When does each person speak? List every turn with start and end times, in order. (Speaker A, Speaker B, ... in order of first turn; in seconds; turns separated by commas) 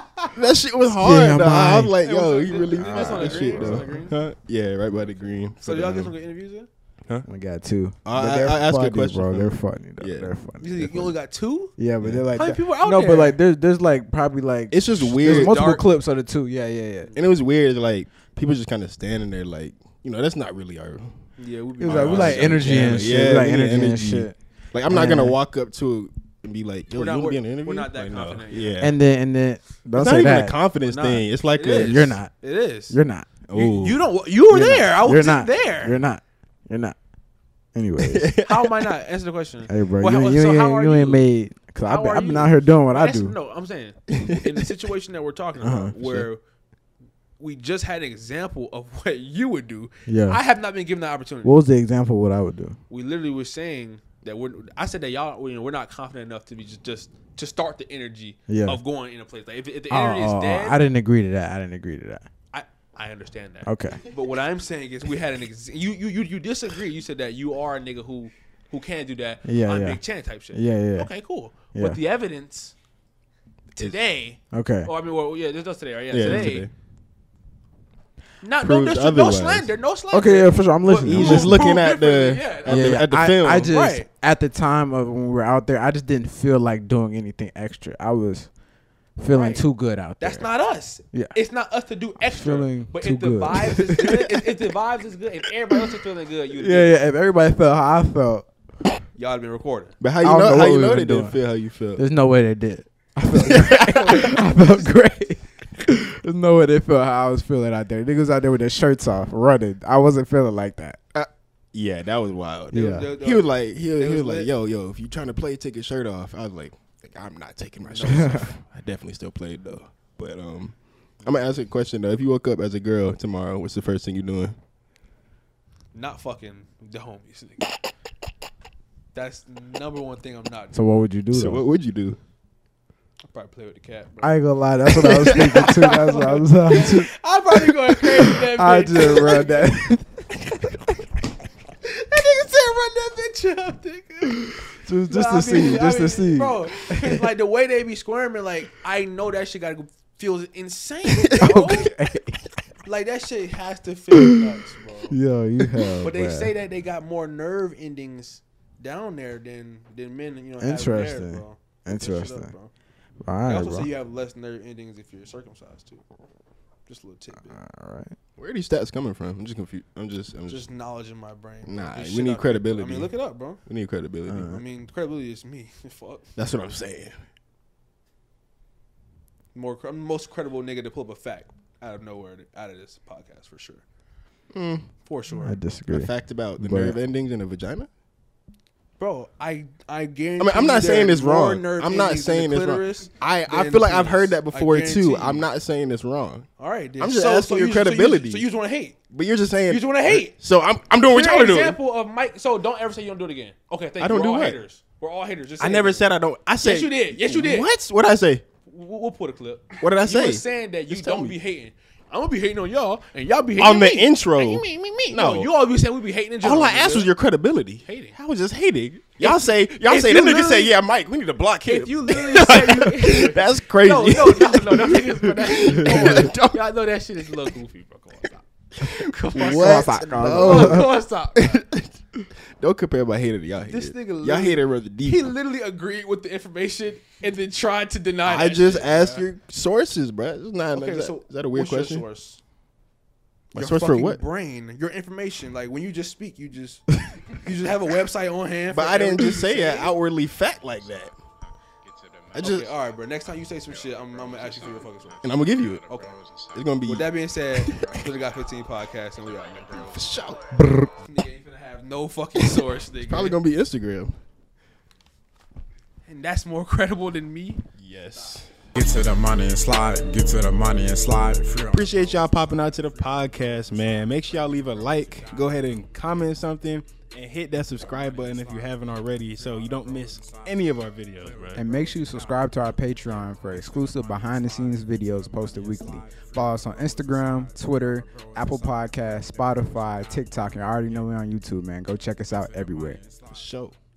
Speaker A: 0.3-6.1, Speaker B: 0.8-2.0, Speaker C: 2.0-4.2, Speaker B: 2.7-4.1, Speaker C: 4.9-6.7, Speaker B: 7.2-11.1, Speaker A: 8.0-10.3, Speaker C: 10.6-11.7, Speaker B: 11.8-17.1, Speaker A: 12.0-12.3, Speaker C: 12.3-13.4, Speaker A: 14.7-15.7, Speaker C: 15.2-15.9, Speaker C: 17.0-17.3, Speaker A: 17.1-21.2, Speaker C: 21.4-23.1, Speaker B: 21.8-25.4, Speaker A: 21.8-28.9, Speaker C: 26.9-28.9, Speaker B: 28.8-30.6, Speaker A: 29.9-32.2, Speaker C: 30.8-33.0, Speaker B: 31.7-32.3, Speaker B: 32.9-33.3, Speaker A: 33.5-34.0, Speaker C: 33.5-36.0, Speaker B: 34.5-37.0, Speaker B: 37.7-38.3, Speaker A: 38.0-38.9, Speaker C: 38.4-41.3, Speaker B: 39.7-43.3, Speaker C: 41.8-46.4, Speaker A: 44.1-44.4, Speaker B: 45.6-46.3, Speaker C: 47.4-51.6, Speaker B: 50.0-50.4, Speaker B: 51.4-52.8, Speaker C: 52.9-60.8, Speaker B: 58.5-58.8, Speaker B: 59.9-62.2, Speaker C: 62.5-72.7, Speaker B: 63.6-64.0, Speaker B: 69.4-70.0, Speaker B: 70.5-71.1, Speaker B: 71.7-72.0, Speaker C: 73.8-76.7, Speaker B: 74.5-74.9, Speaker A: 76.1-76.7, Speaker C: 78.4-83.1, Speaker A: 78.6-79.7, Speaker B: 80.1-81.8, Speaker A: 81.0-83.7, Speaker B: 82.7-88.5, Speaker C: 83.6-84.1, Speaker B: 89.2-90.5, Speaker C: 89.3-97.0, Speaker B: 91.1-91.4, Speaker B: 92.2-94.3, Speaker B: 96.5-98.5, Speaker C: 99.2-100.0, Speaker A: 100.0-102.0, Speaker B: 100.2-101.4, Speaker B: 102.0-111.0, Speaker A: 103.5-104.2, Speaker A: 111.1-124.5, Speaker C: 112.7-114.5, Speaker B: 112.7-113.1, Speaker C: 117.8-118.5, Speaker B: 118.1-118.4, Speaker C: 125.9-127.7, Speaker C: 129.1-130.8, Speaker B: 130.7-131.6, Speaker A: 131.3-132.2, Speaker C: 133.3-139.7, Speaker B: 134.2-137.1, Speaker B: 138.4-140.2, Speaker C: 141.8-151.9, Speaker B: 144.8-147.3, Speaker B: 151.4-152.4, Speaker C: 152.8-155.2, Speaker B: 154.1-154.4, Speaker B: 155.1-156.5, Speaker C: 156.0-162.7, Speaker B: 160.6-162.5, Speaker B: 163.2-163.9, Speaker C: 163.4-166.0, Speaker C: 166.8-167.6, Speaker B: 167.5-168.1, Speaker A: 168.4-170.6, Speaker C: 170.5-173.6, Speaker A: 171.6-173.1, Speaker A: 173.7-174.6, Speaker B: 174.3-174.6, Speaker C: 174.4-176.3, Speaker A: 176.3-177.2, Speaker C: 179.5-183.8, Speaker A: 184.5-184.9, Speaker C: 185.1-185.6, Speaker B: 185.3-187.0, Speaker A: 185.9-187.9, Speaker C: 189.0-195.5, Speaker A: 190.4-196.4, Speaker C: 196.6-198.9, Speaker A: 197.0-198.4, Speaker A: 199.1-201.8, Speaker C: 199.7-200.3, Speaker C: 201.0-206.1, Speaker A: 204.0-204.6, Speaker A: 205.6-208.4, Speaker C: 206.6-207.7, Speaker C: 208.7-217.1, Speaker A: 209.8-211.4, Speaker A: 213.6-215.5, Speaker A: 216.4-226.6, Speaker C: 217.8-218.2, Speaker C: 219.2-220.7, Speaker C: 221.6-231.6, Speaker B: 225.8-226.3, Speaker A: 229.3-232.0, Speaker B: 229.3-230.9, Speaker A: 232.5-235.3, Speaker C: 233.6-239.2, Speaker A: 238.2-242.0, Speaker C: 240.7-242.4, Speaker A: 243.5-244.2, Speaker C: 243.5-249.9, Speaker A: 248.7-251.2, Speaker A: 252.3-252.7, Speaker C: 252.4-255.2, Speaker A: 255.2-255.8, Speaker C: 255.8-256.2, Speaker D: 255.9-256.5, Speaker A: 256.5-258.0, Speaker C: 256.9-260.0, Speaker A: 259.8-260.4, Speaker B: 260.5-260.9, Speaker C: 261.0-263.4, Speaker A: 263.1-264.2, Speaker C: 266.1-267.6, Speaker A: 267.8-268.6, Speaker B: 268.8-271.5, Speaker D: 268.8-272.8, Speaker A: 271.7-281.6, Speaker C: 273.2-275.6, Speaker D: 277.8-280.6, Speaker D: 281.2-291.1, Speaker C: 281.3-281.6, Speaker B: 281.5-293.0, Speaker D: 292.3-293.3, Speaker A: 293.3-293.8